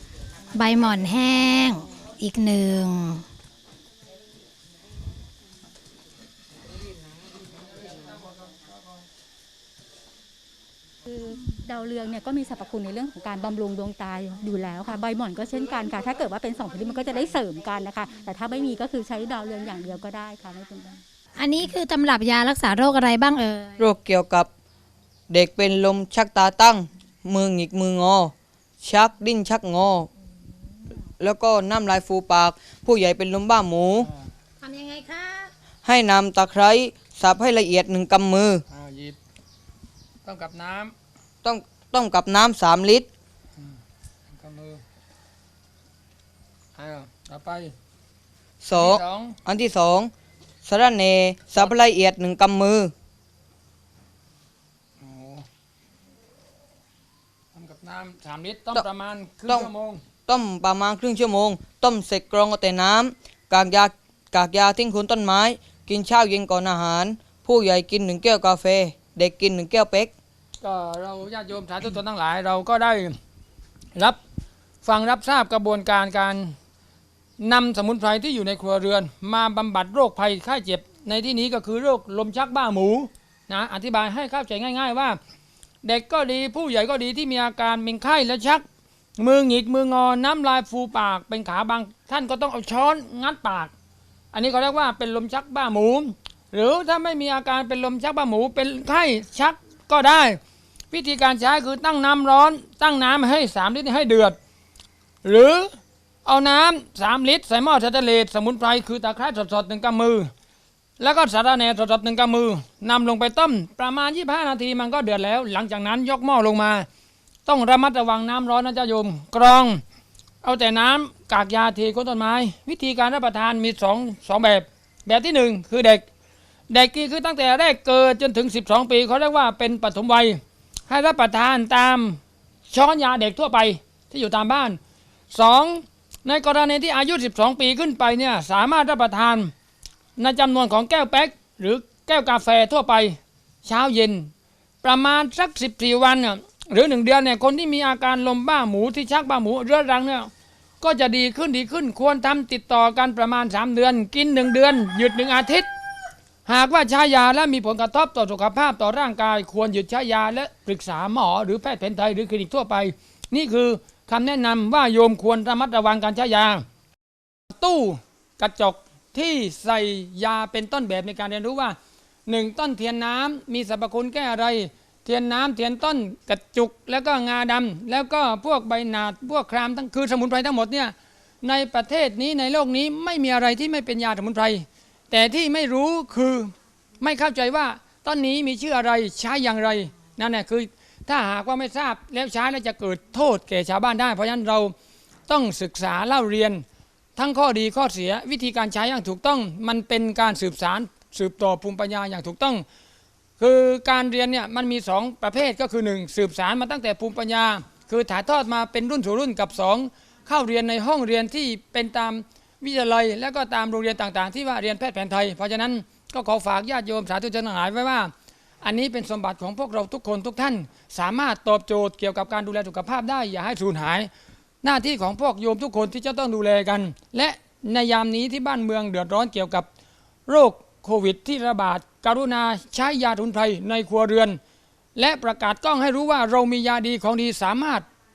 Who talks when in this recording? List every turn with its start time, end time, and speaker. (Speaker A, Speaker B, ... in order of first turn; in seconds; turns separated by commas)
Speaker A: 0.5-3.2, Speaker B: 11.0-21.0, Speaker A: 21.4-23.8, Speaker C: 23.8-24.5, Speaker C: 25.3-30.1, Speaker C: 31.2-34.1, Speaker A: 34.6-35.5, Speaker C: 35.8-38.6, Speaker D: 38.7-39.2, Speaker D: 40.2-40.9, Speaker C: 41.4-43.1, Speaker D: 44.3-44.8, Speaker D: 46.8-47.7, Speaker C: 48.6-50.1, Speaker D: 48.7-49.4, Speaker C: 50.6-52.9, Speaker D: 55.0-55.4, Speaker D: 57.5-60.0, Speaker C: 60.3-70.1, Speaker D: 70.6-73.2, Speaker D: 74.8-76.5, Speaker D: 77.4-85.2, Speaker D: 85.8-88.6, Speaker D: 89.2-93.7, Speaker D: 94.3-100.4, Speaker D: 100.9-104.4, Speaker D: 105.2-105.7, Speaker D: 106.2-110.3, Speaker D: 111.0-116.9, Speaker D: 117.5-119.8, Speaker D: 120.4-126.0, Speaker D: 126.7-134.8, Speaker D: 135.3-139.5, Speaker D: 140.2-144.3, Speaker D: 144.8-150.3, Speaker D: 150.8-155.7, Speaker D: 156.4-166.6, Speaker D: 167.6-194.7, Speaker D: 195.3-196.6, Speaker D: 197.2-202.6, Speaker D: 203.4-224.1, Speaker D: 224.6-229.7, Speaker D: 230.3-234.4, Speaker D: 234.9-237.8